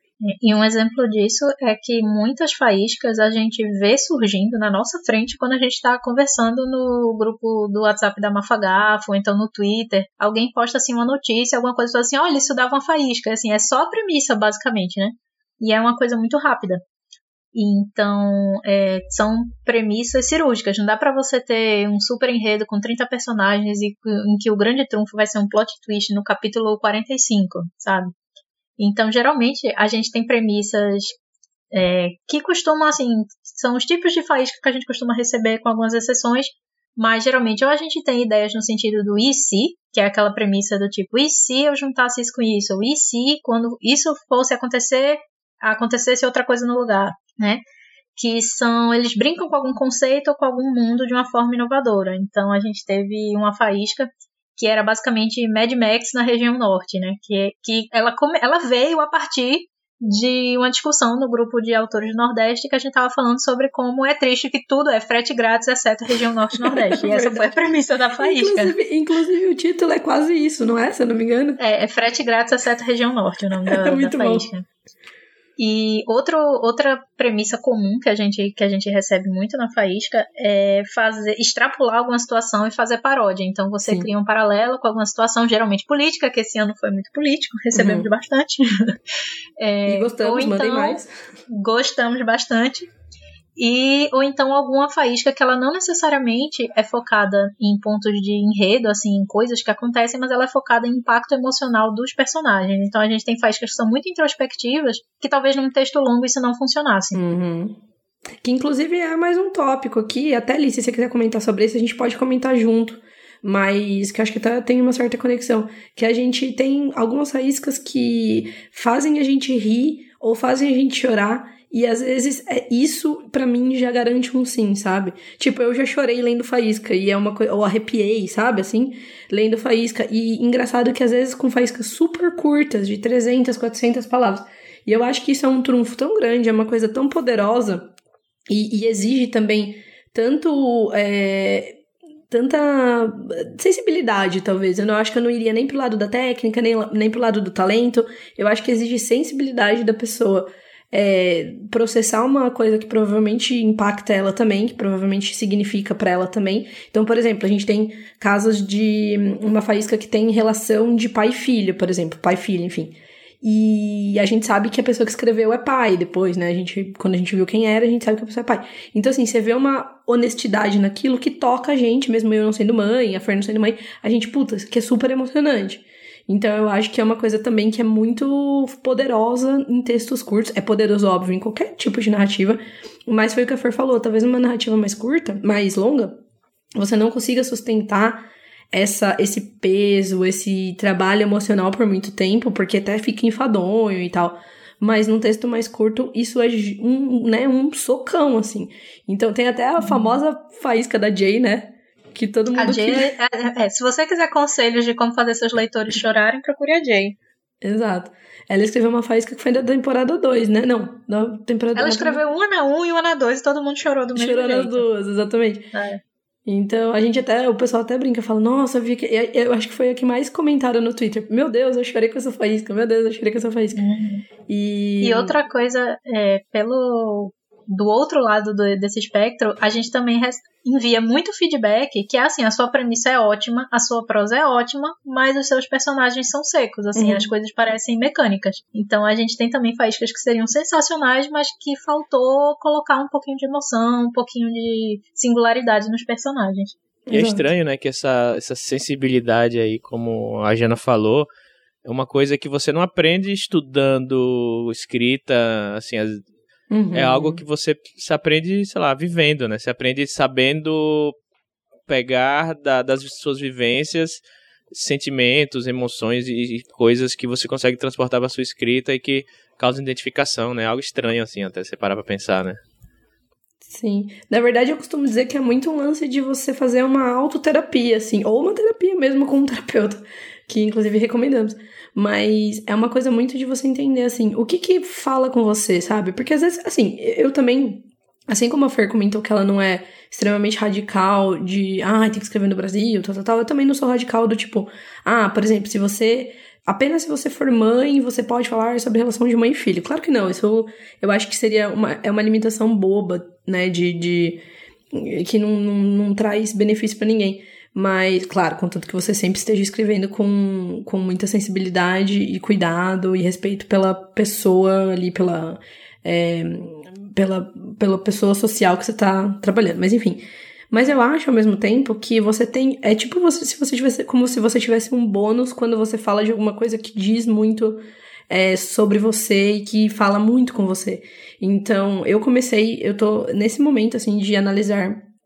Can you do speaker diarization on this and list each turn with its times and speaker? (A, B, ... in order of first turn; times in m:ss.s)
0:00.2-0:16.8 A
0:17.5-0:28.1 A
0:28.8-0:31.2 A
0:31.7-0:47.6 A
0:48.2-1:08.7 A
1:06.6-1:07.6 B
1:08.2-1:11.6 B
1:11.6-1:14.6 A
1:13.7-1:14.5 B
1:15.6-1:29.0 A
1:23.8-1:24.1 B
1:27.7-1:28.1 B
1:29.6-1:32.9 A
1:29.9-1:31.1 B
1:33.6-1:47.2 A
1:47.1-1:47.8 B
1:48.4-2:17.9 B
2:18.5-3:06.2 B
3:06.8-3:23.1 B
3:19.8-3:20.1 A
3:22.6-3:27.2 A
3:27.6-3:32.2 B
3:31.7-3:34.8 A
3:34.2-3:35.7 B
3:35.7-3:36.0 A
3:36.4-3:43.8 B
3:43.7-3:44.2 A
3:44.5-3:45.4 B
3:45.0-4:06.8 A
3:56.9-3:57.3 B
4:07.1-4:07.4 B
4:07.1-4:11.3 C
4:11.8-4:16.2 C
4:16.7-4:17.4 B
4:16.9-4:21.2 C
4:21.9-4:32.6 C
4:33.6-5:35.1 B